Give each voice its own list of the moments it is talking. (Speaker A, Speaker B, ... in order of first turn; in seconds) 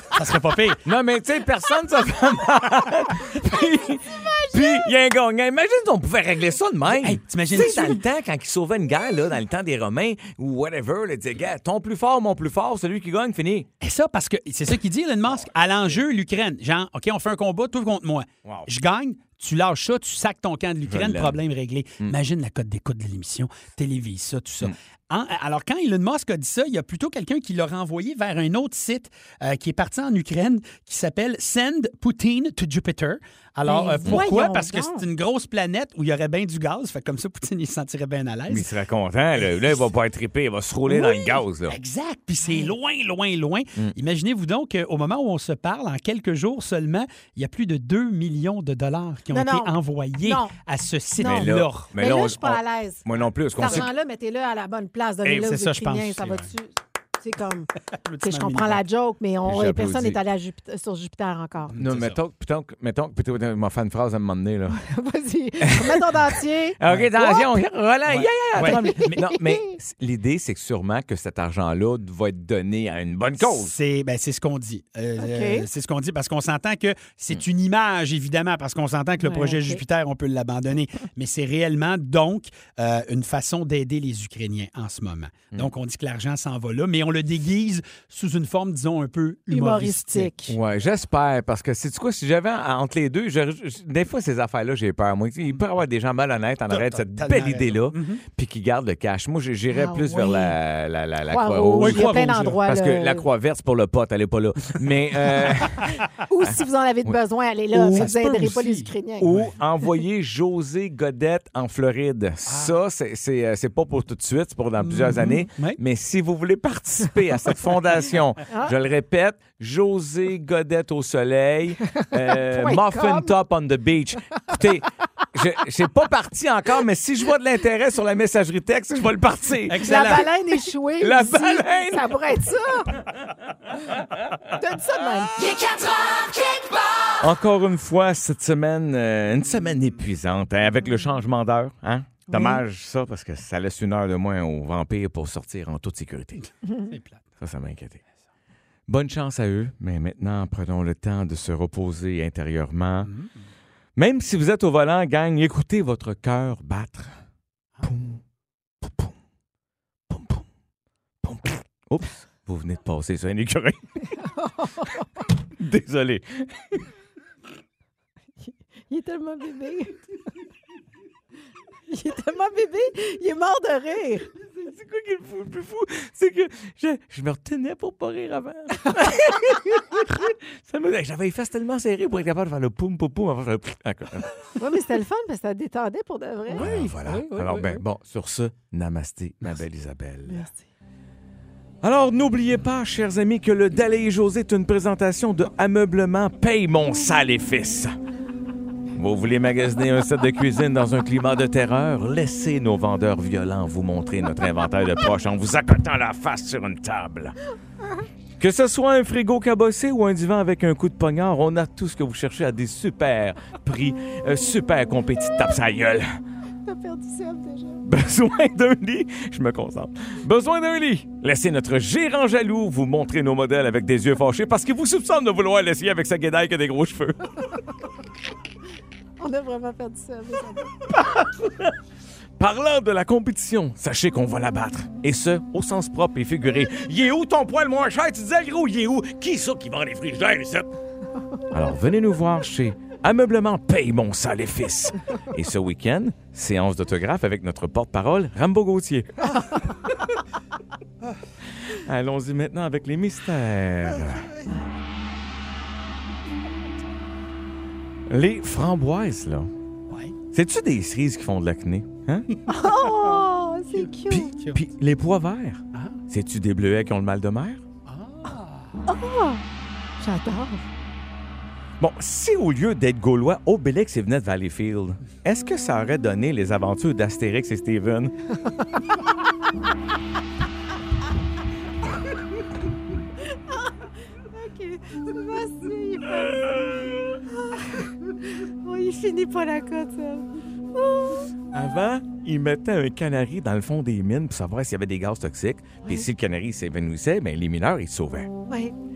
Speaker A: 0.1-0.8, 6.9-8.0, 13.8-38.7, 39.4-39.8, 40.9-51.9, 55.2-56.5, 58.0-58.8, 61.7-62.2, 66.9-67.1, 68.1-69.2, 73.4-90.3, 96.7-98.2, 101.8-102.6, 108.0-109.5, 112.5-112.8, 114.8-115.8, 129.7-130.3, 146.9-147.2, 153.0-153.3, 186.5-187.8, 259.9-260.2, 262.3-264.6, 265.7-266.0, 267.9-268.7
Speaker B: 0.8-13.7, 15.3-16.0, 20.9-21.4, 38.5-41.8, 51.2-53.9, 59.5-60.2, 61.8-64.8, 65.7-66.2, 66.8-73.7, 90.5-102.1, 102.7-107.2, 107.7-108.3, 109.2-130.3, 131.0-132.1, 137.2-146.4, 147.4-148.0, 148.9-153.1, 154.0-157.2, 157.8-158.2, 158.8-159.2, 160.1-160.5, 161.2-164.2, 165.4-166.9, 174.6-184.3, 186.5-190.5, 191.8-197.9, 199.0-207.3, 208.4-216.1, 217.8-227.6, 230.9-231.8, 232.4-240.7, 241.5-249.7, 251.7-254.3, 258.1-259.5, 260.3-262.3, 264.5-267.6, 271.8-278.1, 291.5-298.3
Speaker C: 4.0-4.8, 33.6-35.0, 49.3-50.5, 51.2-57.7, 58.2-61.8, 64.7-67.4, 68.7-69.8, 75.2-75.7, 79.2-79.8, 89.5-90.5, 99.7-100.6, 101.3-103.3, 106.3-109.3, 122.0-123.3, 129.8-133.0, 134.5-135.4, 164.1-165.3, 168.9-170.1, 171.9-174.3, 184.6-186.7, 190.3-190.7, 216.7-217.8, 229.2-230.8, 262.5-264.4, 268.9-269.4, 270.0-270.6, 283.2-286.5, 287.2-291.3, 298.5-298.8